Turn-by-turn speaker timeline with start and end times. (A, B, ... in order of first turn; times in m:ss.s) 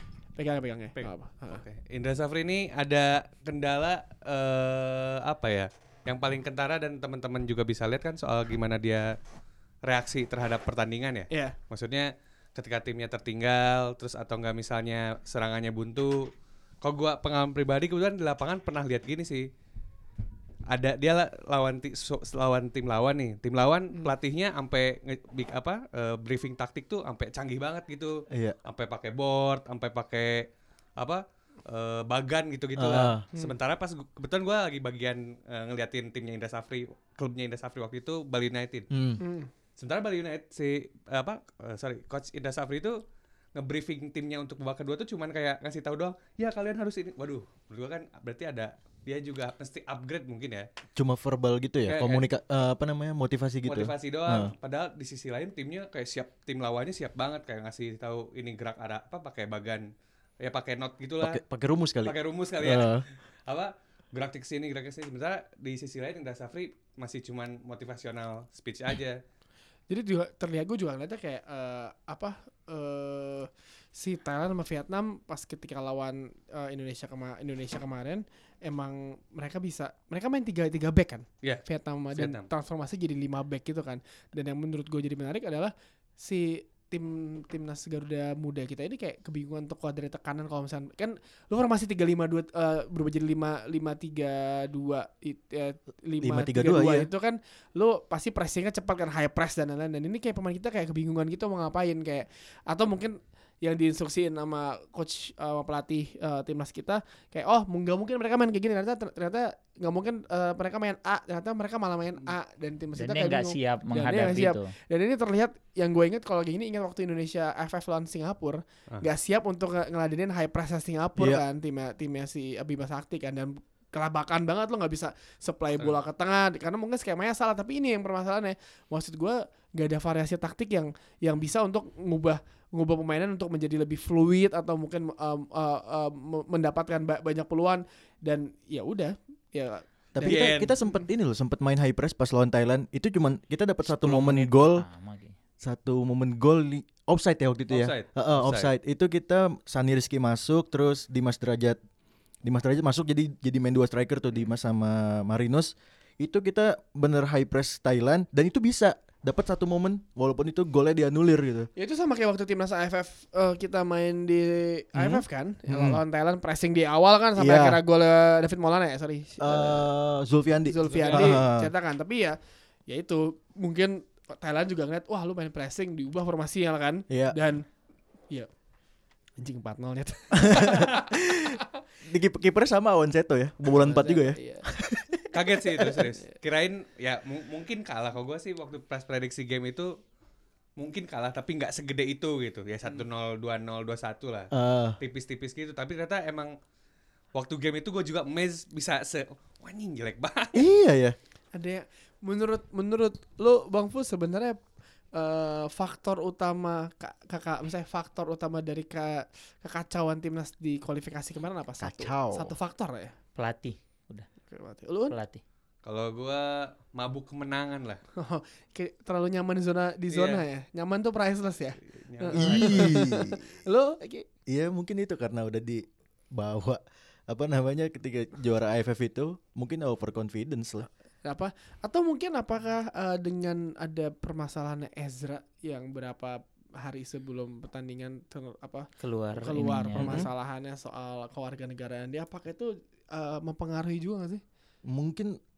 0:00.4-0:01.6 A
0:01.0-0:09.1 B
0:09.8-0:16.3 B
0:16.8-0:19.5 B
0:20.7-0:38.9 B
0:28.3-0:28.6 C
0:32.8-0:33.2 C
0:38.9-0:39.2 C
0:39.2-0:39.5 A
0:39.8-0:43.0 B
0:43.5-0:50.7 B
0:51.0-0:54.5 C
0:51.8-0:52.2 B
0:53.6-0:59.9 B
1:00.4-1:01.4 B
1:01.2-1:03.0 C
1:02.0-1:09.2 B
1:09.9-2:21.0 A
1:21.4-1:22.5 B
1:36.2-1:37.1 C
1:53.0-1:54.7 D
2:01.2-2:01.4 C
2:20.1-2:24.8 C
2:20.2-2:20.8 B
2:23.8-2:25.4 D
2:25.6-2:31.8 C
2:27.7-2:28.7 B
2:32.4-2:41.7 C
2:41.8-2:49.9 A
2:45.0-2:46.0 C
2:47.4-2:47.8 C
2:49.4-2:51.7 C
2:50.7-2:57.6 A
2:50.8-2:51.4 B
2:57.1-2:57.4 C
2:59.4-3:01.6 A
3:00.3-3:06.0 C
3:03.6-3:04.6 A
3:05.3-3:09.9 B
3:10.8-3:16.5 B
3:14.5-3:15.0 C
3:17.3-3:20.6 B
3:20.5-3:21.2 C
3:21.5-3:24.6 A
3:25.1-3:33.1 A
3:31.8-3:32.5 C
3:33.4-3:34.3 D
3:34.5-3:35.2 A
3:35.1-3:35.4 D
3:35.8-3:38.0 B
3:38.2-3:44.3 A
3:40.1-3:40.4 B
3:41.9-3:42.8 B
3:42.3-3:43.4 C
3:44.5-3:50.9 C
3:51.2-4:04.4 A
3:59.0-4:00.2 D
4:00.0-4:00.3 C
4:04.9-4:05.4 C